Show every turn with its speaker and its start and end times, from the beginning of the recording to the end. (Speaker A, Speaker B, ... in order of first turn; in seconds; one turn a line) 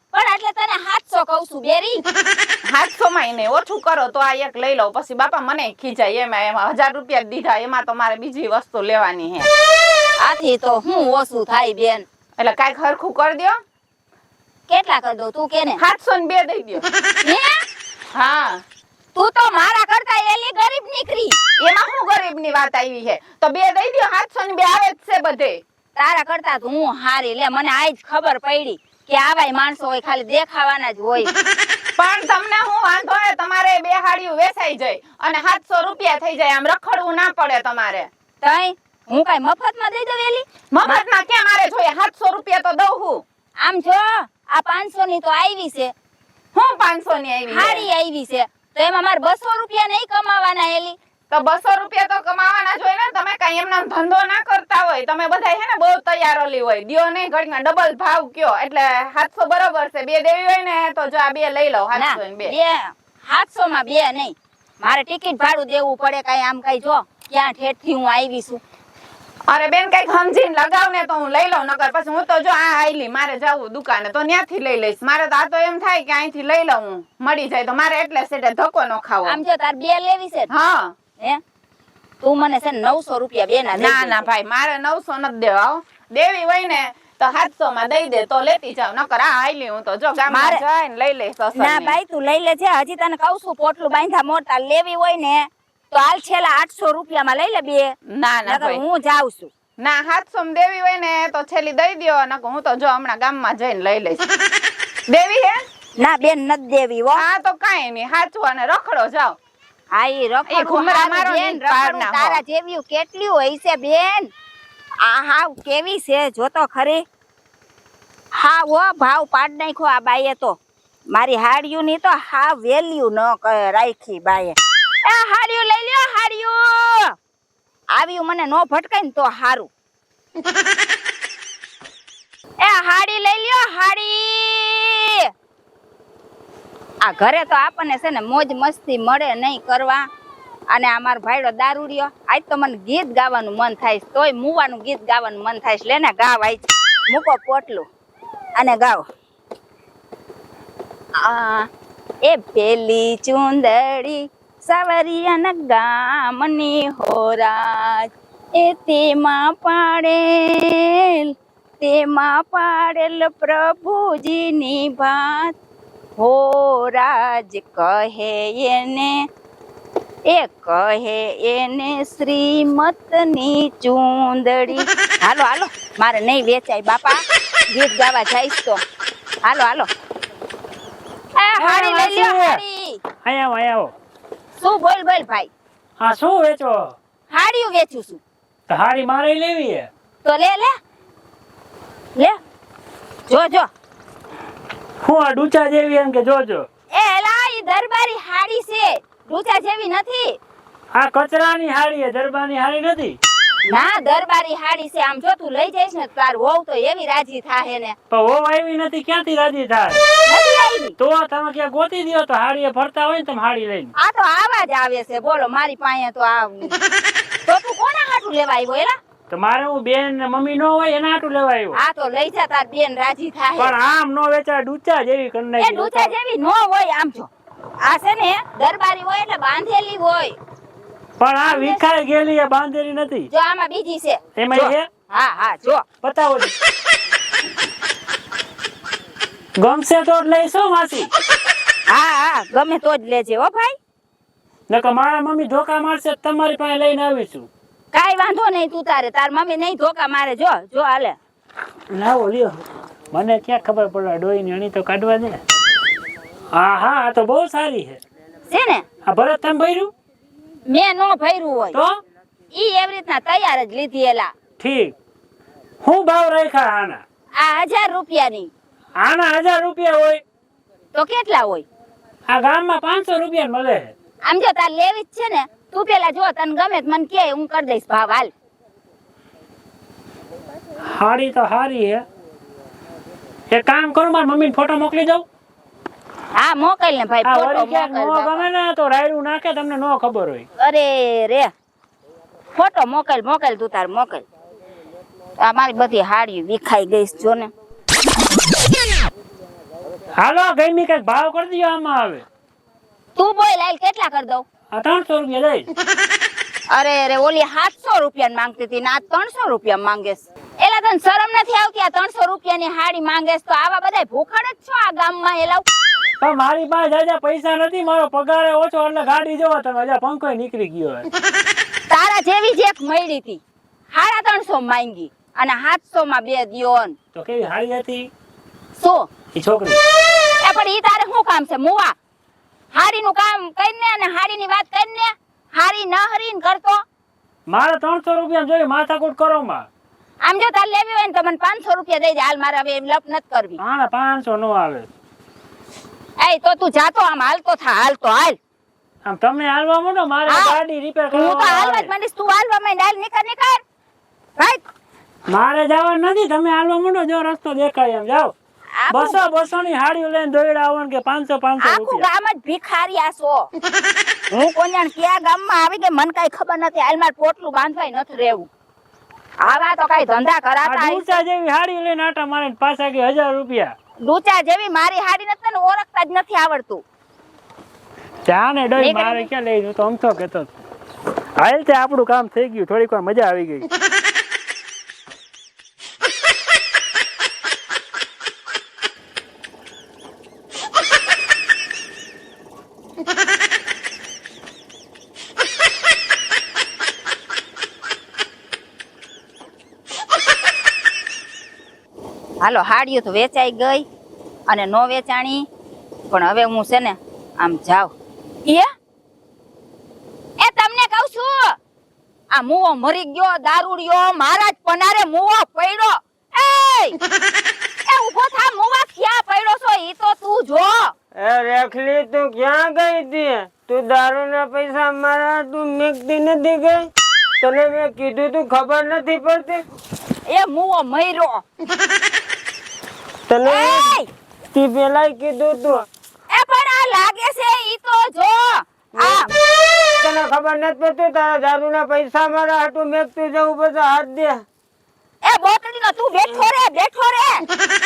Speaker A: 0.1-2.0
Speaker B: 2.6-9.5
Speaker A: 10.2-12.0
Speaker B: 12.4-13.6
Speaker A: 14.7-15.8
Speaker B: 15.8-16.8
Speaker A: 17.2-17.5
Speaker B: 18.1-18.6
Speaker A: 19.1-21.4
Speaker B: 21.6-25.6
Speaker A: 25.9-31.3
Speaker B: 32.0-38.1
Speaker A: 38.4-41.0
Speaker B: 40.7-43.2
Speaker A: 43.6-45.9
Speaker B: 46.5-47.9
Speaker A: 47.5-51.0
Speaker B: 51.3-62.5
Speaker A: 61.9-68.6
Speaker B: 69.5-79.4
Speaker A: 79.2-80.5
Speaker B: 80.5-80.9
Speaker A: 82.2-84.2
Speaker B: 83.8-91.9
Speaker A: 90.3-90.6
Speaker A: 91.5-97.9
Speaker B: 98.1-98.8
Speaker A: 98.5-99.5
Speaker B: 99.8-104.2
Speaker B: 105.1-105.6
Speaker A: 106.0-107.2
Speaker B: 107.2-109.4
Speaker A: 109.9-114.3
Speaker B: 110.5-112.4
Speaker A: 115.0-117.0
Speaker A: 118.3-120.6
Speaker A: 121.1-127.1
Speaker A: 127.9-129.7
Speaker A: 132.6-135.3
Speaker A: 137.0-140.0
Speaker A: 140.7-147.8
Speaker A: 148.6-149.0
Speaker B: 151.2-151.7
Speaker A: 152.2-165.5
Speaker A: 166.2-169.2
Speaker A: 170.3-178.8
Speaker A: 179.4-179.9
Speaker A: 181.4-183.0
Speaker C: 181.6-182.6
Speaker C: 183.2-183.9
Speaker A: 184.6-185.5
Speaker C: 186.0-186.9
Speaker A: 187.3-188.2
Speaker C: 188.7-189.9
Speaker A: 190.2-190.7
Speaker A: 193.3-193.7
Speaker C: 195.0-196.7
Speaker A: 196.9-200.4
Speaker C: 200.9-203.2
Speaker A: 203.7-207.9
Speaker C: 208.1-210.0
Speaker A: 210.2-210.9
Speaker C: 211.0-213.9
Speaker A: 214.0-216.7
Speaker A: 217.4-219.0
Speaker C: 219.3-221.8
Speaker A: 221.7-223.7
Speaker C: 223.6-226.1
Speaker A: 225.6-230.4
Speaker C: 231.2-233.3
Speaker A: 231.5-231.8
Speaker A: 233.3-234.2
Speaker C: 234.4-234.9
Speaker A: 235.1-235.8
Speaker C: 236.0-236.5
Speaker C: 239.6-241.1
Speaker A: 241.9-243.7
Speaker C: 244.7-247.5
Speaker A: 247.9-251.2
Speaker C: 251.9-255.4
Speaker C: 256.5-258.0
Speaker A: 258.5-258.8
Speaker C: 259.0-259.9
Speaker A: 260.6-261.8
Speaker C: 261.7-262.0
Speaker A: 262.5-264.3
Speaker C: 264.6-264.9
Speaker C: 265.8-267.0
Speaker A: 267.4-268.5
Speaker C: 269.0-270.2
Speaker A: 270.9-271.6
Speaker C: 272.3-273.9
Speaker A: 274.2-278.3
Speaker C: 280.9-282.1
Speaker C: 283.5-285.2
Speaker A: 286.3-288.5
Speaker C: 287.2-290.4
Speaker A: 290.6-291.5
Speaker A: 292.5-294.2
Speaker A: 295.4-297.5
Speaker C: 300.2-302.2
Speaker A: 303.1-304.4
Speaker C: 304.7-305.7
Speaker A: 306.7-315.6
Speaker C: 316.2-321.1
Speaker A: 321.9-326.9
Speaker C: 327.1-328.1
Speaker A: 328.8-329.1
Speaker C: 329.3-329.8
Speaker A: 330.4-331.9
Speaker A: 332.7-336.8
Speaker C: 337.5-339.7
Speaker A: 340.2-343.6
Speaker C: 343.6-344.9
Speaker A: 346.2-348.4
Speaker C: 349.0-351.9
Speaker A: 350.2-350.6
Speaker A: 351.1-353.6
Speaker C: 355.3-358.3
Speaker A: 358.8-359.2
Speaker C: 358.9-362.1
Speaker A: 361.6-363.5
Speaker A: 364.3-368.5
Speaker A: 369.4-371.0
Speaker C: 370.6-373.7
Speaker A: 374.0-376.8
Speaker C: 378.3-380.5
Speaker A: 378.8-379.3
Speaker C: 381.4-383.7
Speaker A: 402.4-403.9
Speaker A: 404.5-405.5
Speaker A: 406.1-407.9
Speaker A: 410.4-411.6
Speaker A: 412.3-417.0
Speaker A: 417.9-420.9
Speaker D: 421.2-426.8
Speaker D: 427.4-429.6
Speaker A: 430.2-431.4
Speaker D: 433.3-434.0
Speaker A: 433.4-434.1
Speaker D: 434.5-435.8
Speaker A: 436.3-439.3
Speaker D: 438.9-439.3
Speaker D: 440.0-444.4
Speaker A: 445.2-447.4